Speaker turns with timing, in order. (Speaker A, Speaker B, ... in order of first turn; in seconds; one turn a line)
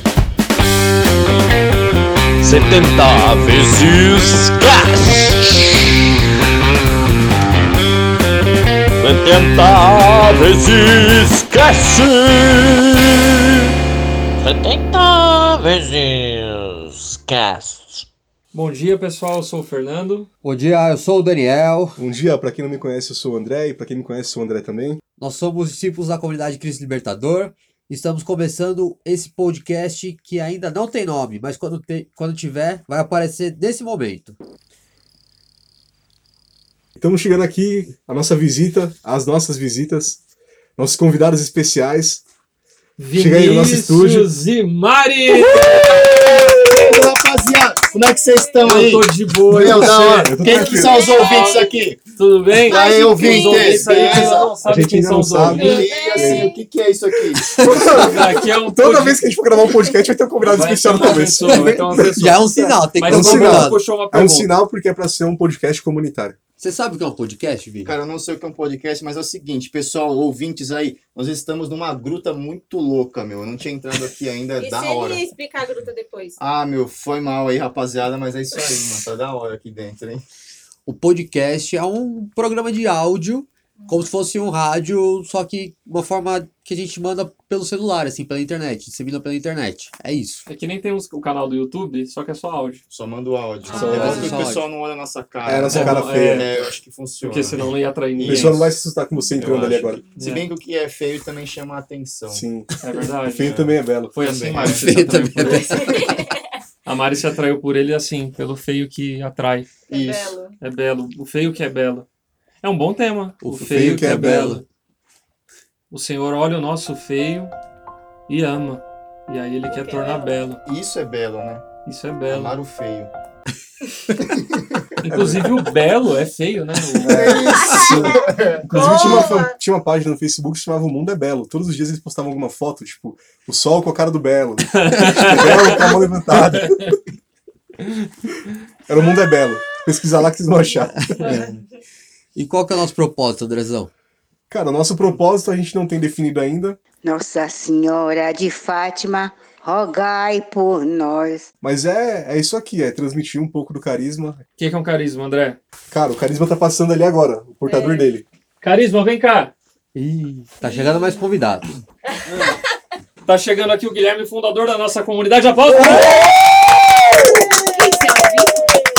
Speaker A: 2.4-5.6
Speaker A: 9.0-12.9
Speaker A: 14.4-18.0
Speaker B: 18.5-20.3
Speaker C: 20.4-22.0
Speaker D: 22.0-25.0
Speaker C: 25.2-34.4
Speaker D: 37.0-40.2
Speaker D: 40.8-42.2
Speaker B: 43.0-45.8
Speaker D: 43.1-44.3
Speaker E: 45.3-52.0
Speaker B: 48.6-50.3
Speaker D: 49.8-51.1
Speaker F: 50.5-51.7
Speaker B: 51.0-55.9
Speaker E: 52.6-54.5
Speaker F: 52.7-54.4
Speaker D: 54.6-56.5
Speaker E: 55.5-57.5
Speaker F: 55.5-56.5
Speaker D: 57.6-66.4
Speaker B: 57.7-59.3
Speaker B: 60.4-64.5
Speaker C: 61.4-63.8
Speaker C: 66.6-67.9
Speaker E: 67.8-75.3
Speaker F: 74.6-76.4
Speaker E: 76.4-80.2
Speaker C: 80.8-90.5
Speaker B: 90.5-92.8
Speaker E: 92.9-98.7
Speaker D: 93.7-94.2
Speaker F: 93.7-94.3
Speaker C: 93.8-94.7
Speaker D: 95.4-96.5
Speaker B: 95.7-96.5
Speaker B: 97.2-98.7
Speaker D: 98.2-100.0
Speaker E: 99.3-102.5
Speaker B: 100.2-100.5
Speaker D: 102.3-102.7
Speaker B: 102.8-105.7
Speaker D: 103.2-104.1
Speaker E: 103.5-104.9
Speaker C: 104.6-106.1
Speaker F: 105.7-106.4
Speaker B: 106.8-109.8
Speaker F: 109.9-110.5
Speaker E: 109.9-110.4
Speaker B: 110.6-112.1
Speaker B: 112.6-114.6
Speaker C: 113.4-114.6
Speaker D: 113.5-114.6
Speaker B: 115.9-117.5
Speaker B: 118.3-120.6
Speaker F: 119.7-120.5
Speaker E: 120.6-121.6
Speaker B: 121.8-122.5
Speaker E: 122.3-123.1
Speaker E: 124.2-124.8
Speaker B: 125.0-127.4
Speaker D: 125.1-125.5
Speaker D: 127.0-137.0
Speaker E: 127.0-129.2
Speaker F: 127.4-128.2
Speaker F: 128.7-129.5
Speaker B: 134.8-136.9
Speaker D: 138.9-141.1
Speaker C: 140.9-141.6
Speaker C: 142.3-143.9
Speaker D: 144.5-146.8
Speaker G: 147.0-151.4
Speaker D: 151.6-154.4
Speaker B: 154.6-155.6
Speaker D: 155.9-158.2
Speaker F: 157.7-158.1
Speaker B: 158.6-159.5
Speaker C: 159.9-161.8
Speaker F: 160.6-161.3
Speaker F: 162.2-162.5
Speaker B: 163.2-166.2
Speaker F: 167.5-168.8